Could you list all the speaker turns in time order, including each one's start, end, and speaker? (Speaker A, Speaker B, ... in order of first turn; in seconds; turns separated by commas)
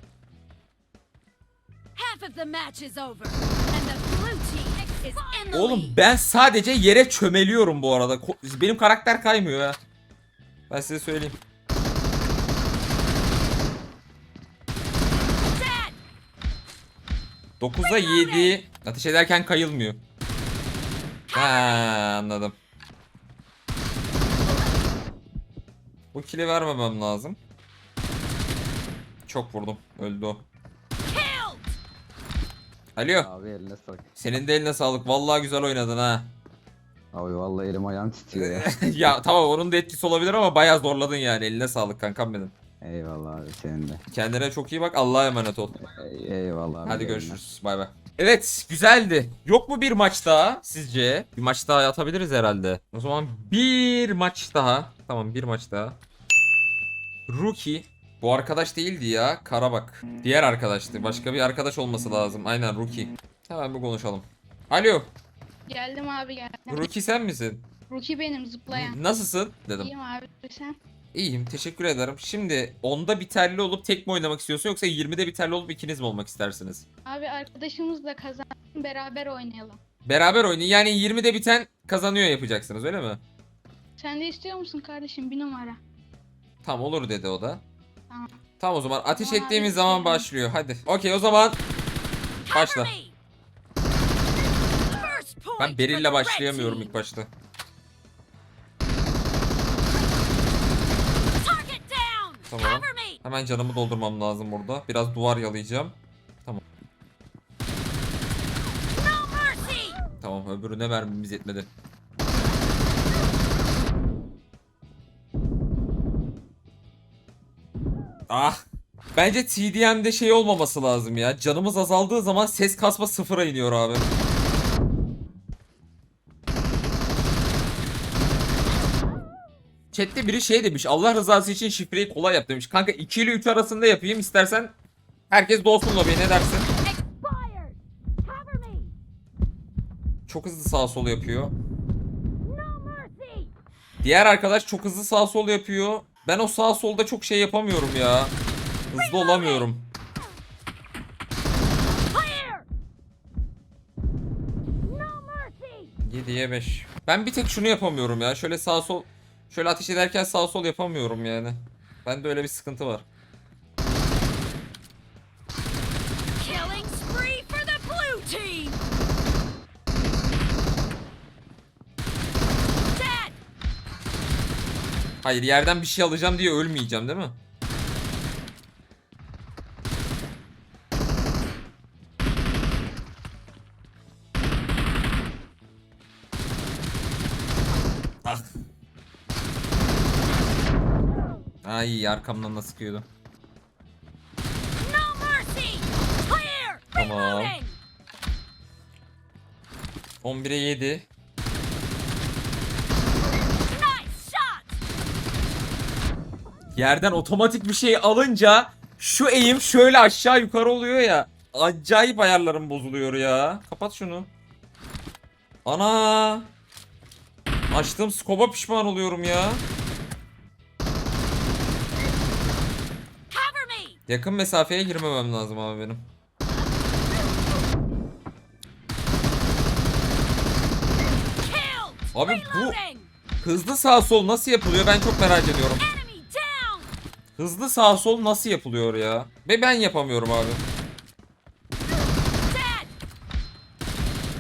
Speaker A: 2.0-6.0, Speaker B: 5.5-9.8, Speaker B: 10.7-11.4, Speaker A: 15.5-16.0, Speaker B: 17.6-20.0, Speaker A: 17.8-18.5, Speaker B: 21.3-22.5, Speaker A: 21.4-21.8, Speaker B: 26.1-27.4, Speaker B: 29.3-30.5, Speaker A: 31.1-31.8, Speaker B: 33.0-33.3, Speaker C: 33.2-34.0, Speaker B: 34.2-36.3, Speaker C: 37.1-38.7, Speaker B: 38.3-42.5, Speaker C: 42.8-44.0, Speaker B: 44.1-45.9, Speaker C: 46.0-47.4, Speaker B: 46.9-56.0, Speaker B: 57.3-65.1, Speaker D: 65.7-66.9, Speaker B: 66.7-67.7, Speaker D: 67.9-69.0, Speaker B: 68.7-69.9, Speaker D: 69.8-70.8, Speaker B: 71.1-76.9, Speaker D: 77.1-79.8, Speaker B: 80.1-83.2, Speaker D: 84.0-85.8, Speaker B: 86.6-87.6, Speaker B: 88.6-91.6, Speaker D: 89.2-90.3, Speaker A: 92.5-93.2, Speaker B: 92.5-92.9, Speaker A: 94.9-97.0, Speaker B: 95.6-97.3, Speaker A: 101.3-103.2, Speaker B: 102.5-106.6, Speaker A: 108.9-110.0, Speaker B: 110.2-111.7, Speaker B: 118.3-118.6, Speaker B: 119.2-124.1, Speaker B: 129.9-134.7, Speaker B: 135.3-136.7, Speaker A: 136.8-138.9, Speaker B: 140.3-141.6, Speaker A: 142.4-143.5, Speaker B: 144.0-148.3, Speaker B: 148.9-149.9, Speaker A: 148.9-149.7, Speaker A: 152.1-152.7, Speaker A: 154.8-155.9, Speaker B: 156.1-163.1, Speaker A: 166.4-168.9, Speaker A: 172.9-173.4, Speaker B: 175.2-177.4, Speaker B: 191.7-193.1, Speaker A: 194.8-197.8, Speaker B: 196.9-197.6, Speaker B: 200.2-201.1, Speaker A: 203.7-204.8, Speaker B: 206.8-214.3, Speaker B: 215.7-216.5, Speaker B: 217.7-219.6, Speaker A: 223.3-224.0, Speaker B: 224.1-226.1, Speaker A: 231.4-233.1, Speaker B: 232.2-232.8, Speaker B: 233.4-235.8, Speaker A: 235.8-236.9, Speaker B: 237.4-240.7, Speaker A: 242.4-242.9